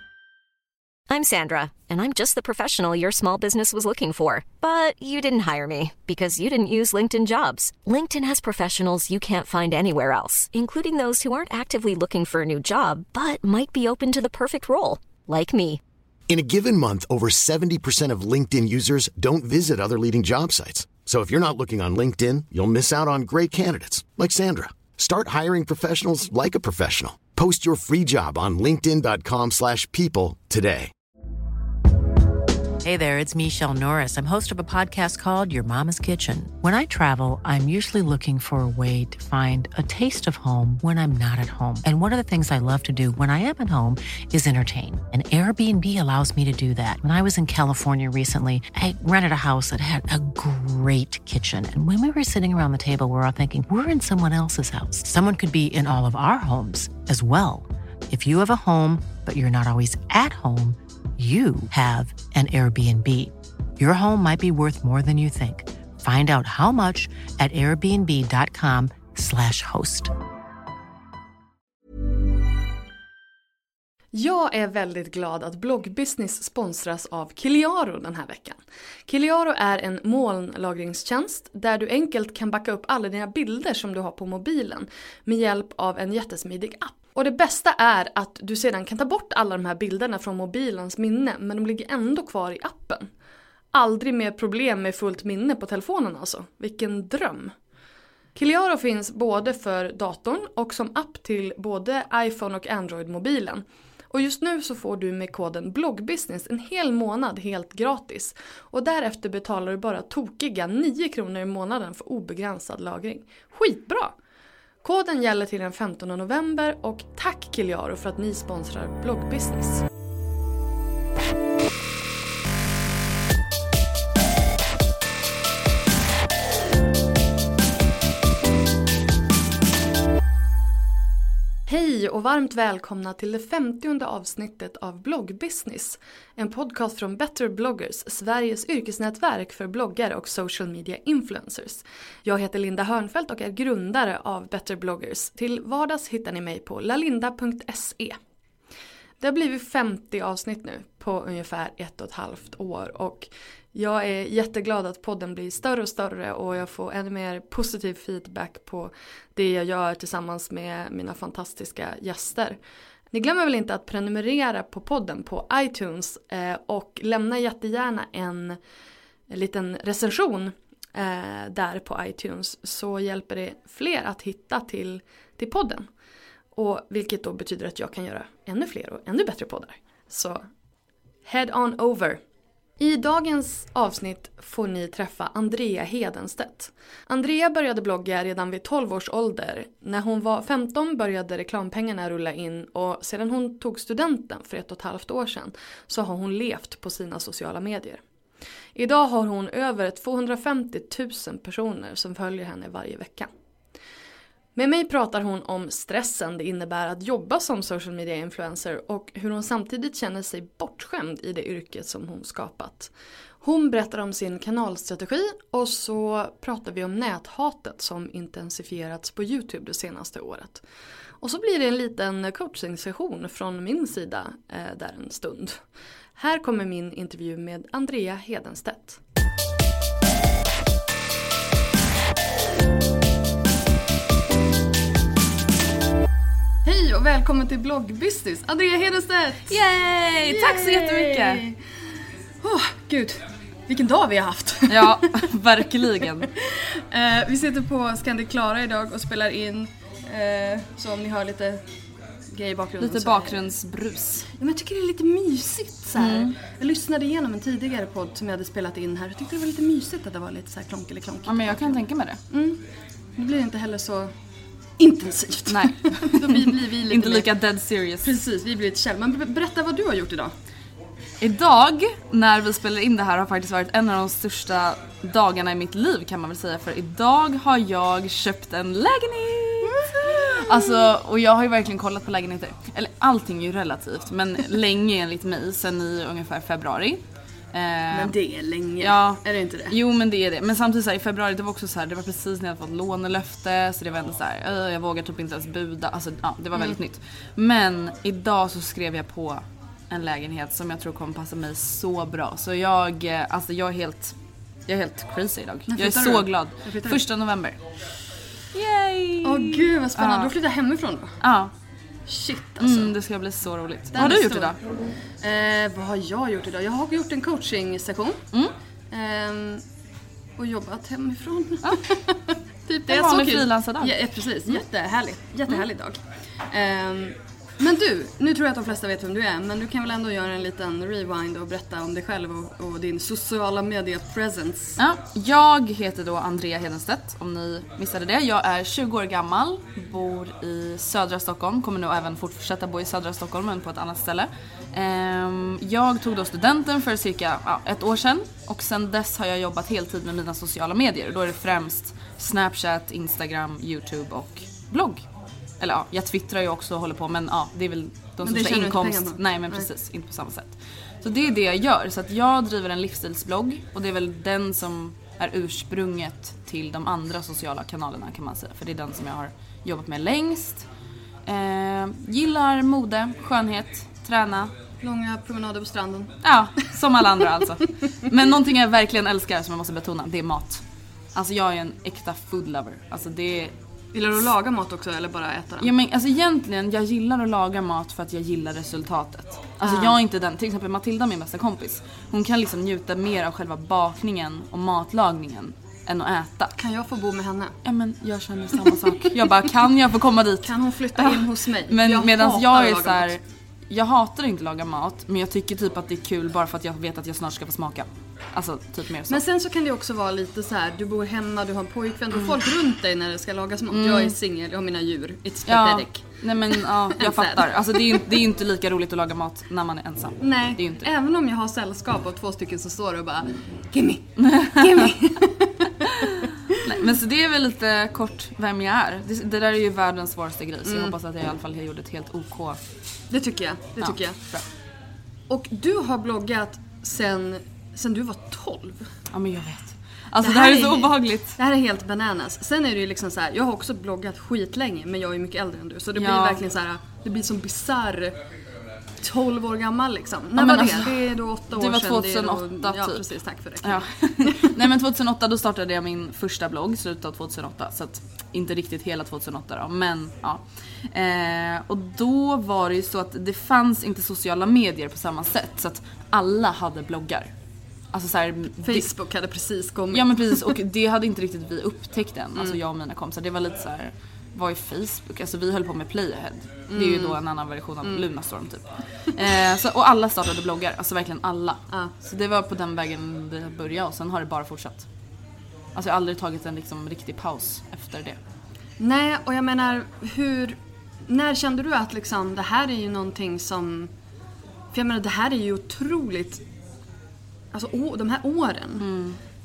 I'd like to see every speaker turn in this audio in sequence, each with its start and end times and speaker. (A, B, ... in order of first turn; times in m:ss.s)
0:01.1-0:15.8 A
0:16.3-0:30.9 B
0:32.8-1:10.1 C
1:14.1-1:33.1 D
1:33.7-1:37.6 D
1:38.4-1:54.1 D
1:54.8-1:59.8 D
2:11.7-2:28.2 D
2:29.2-2:42.6 D
2:43.1-2:48.6 D
2:49.3-2:55.9 D
2:56.6-3:00.4 D
3:01.3-3:02.2 D
3:02.8-3:18.0 D
3:18.8-3:23.3 D
3:24.6-3:32.9 D
3:33.4-3:40.6 D
3:41.2-3:45.6 D
3:46.2-3:49.0 D
3:56.6-3:59.6 D
3:59.5-4:01.4 E
4:00.3-4:01.6 D
4:02.4-4:05.1 D
4:04.7-4:06.3 E
4:06.4-4:11.7 D
4:12.3-4:13.5 D
4:12.8-4:14.3 E
4:14.4-4:22.6 D
4:16.0-4:16.3 E
4:21.3-4:22.2 E
4:23.2-4:24.1 D
4:24.8-4:27.3 D
4:25.5-4:28.1 E
4:28.0-4:30.3 D
4:31.2-4:47.0 E
4:39.6-4:40.9 D
4:47.5-4:48.2 E
4:47.9-4:49.8 D
4:48.8-5:04.2 E
5:04.7-5:07.6 E
5:05.7-5:07.0 D
5:08.5-5:10.3 E
5:09.2-5:11.2 D
5:11.2-5:11.5 E
5:12.1-5:12.9 D
5:12.6-5:14.6 E
5:13.9-5:14.6 D
5:15.2-5:18.2 D
5:18.9-5:19.6 D
5:20.4-5:34.8 D
5:22.9-5:24.0 E
5:34.8-5:55.1 E
5:55.6-6:10.6 E
5:58.2-5:59.7 D
6:11.3-6:14.5 E
6:14.8-6:16.2 D
6:16.2-6:20.6 E
6:21.2-6:23.5 E
6:23.9-6:25.7 D
6:25.6-6:36.6 E
6:29.6-6:30.0 D
6:36.6-6:37.6 D
6:37.6-6:49.2 E
6:40.4-6:43.1 D
6:49.1-6:58.0 D
6:53.7-6:54.2 E
6:55.5-7:00.9 E
7:00.2-7:06.3 D
7:04.2-7:04.9 E
7:06.5-7:12.6 E
7:10.6-7:11.0 D
7:13.1-7:14.2 D
7:13.8-7:14.4 E
7:15.3-7:18.9 D
7:19.1-7:21.4 E
7:20.2-7:28.2 D
7:26.0-7:26.4 E
7:29.0-7:34.6 D
7:30.4-7:33.1 E
7:33.6-7:47.3 E
7:47.9-7:48.9 E
7:48.6-7:50.5 D
7:49.9-8:04.9 E
7:56.7-7:57.2 D
8:05.8-8:08.2 E
8:08.8-8:13.9 D
8:14.7-8:16.4 D
8:17.5-8:18.9 D
8:18.8-8:19.2 E